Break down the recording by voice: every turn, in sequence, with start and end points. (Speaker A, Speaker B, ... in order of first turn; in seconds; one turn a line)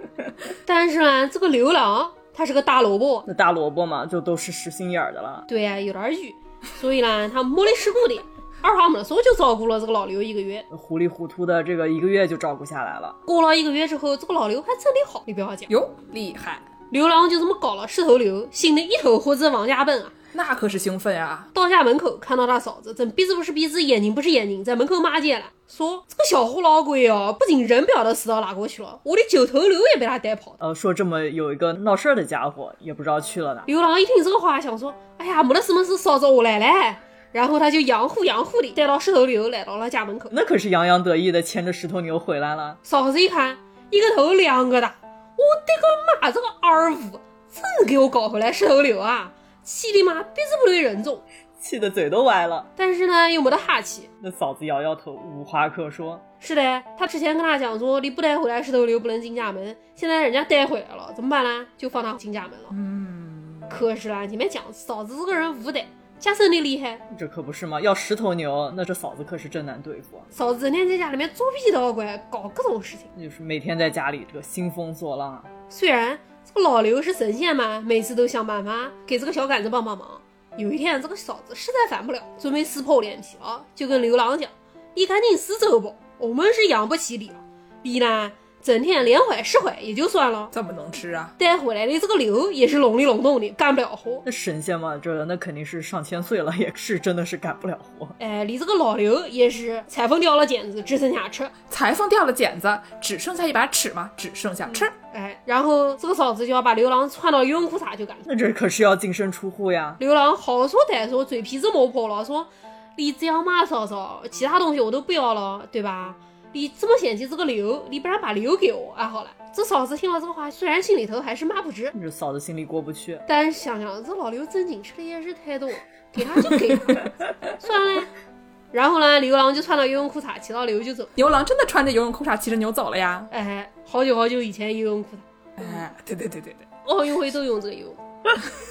Speaker A: 0.7-3.3
Speaker B: 3.3-5.5
Speaker A: 5.5-10.7
Speaker B: 10.7-13.2
Speaker A: 13.2-15.7
Speaker C: 15.7-16.7
Speaker A: 16.9-20.1
Speaker C: 20.3-21.5
Speaker A: 21.5-30.6
Speaker B: 30.6-33.7
Speaker A: 33.7-40.3
Speaker B: 40.3-42.8
Speaker A: 42.8-51.2
Speaker B: 51.6-52.7
Speaker A: 52.8-54.1
Speaker B: 54.2-56.2
Speaker A: 56.4-62.7
Speaker C: 62.7-63.7
Speaker A: 63.7-67.0
Speaker B: 67.1-70.3
Speaker A: 70.3-73.1
Speaker B: 73.1-75.5
Speaker A: 75.7-90.5
Speaker C: 90.5-91.3
Speaker A: 91.4-94.2
Speaker B: 94.2-98.2
Speaker A: 98.2-101.5
Speaker C: 101.7-104.9
Speaker A: 104.7-108.2
Speaker B: 108.2-110.0
Speaker A: 110.0-121.9
Speaker B: 121.9-123.2
Speaker A: 123.3-128.1
Speaker A: 128.7-131.1
Speaker C: 131.2-133.3
Speaker A: 133.3-135.8
Speaker C: 135.6-136.6
Speaker A: 136.8-138.0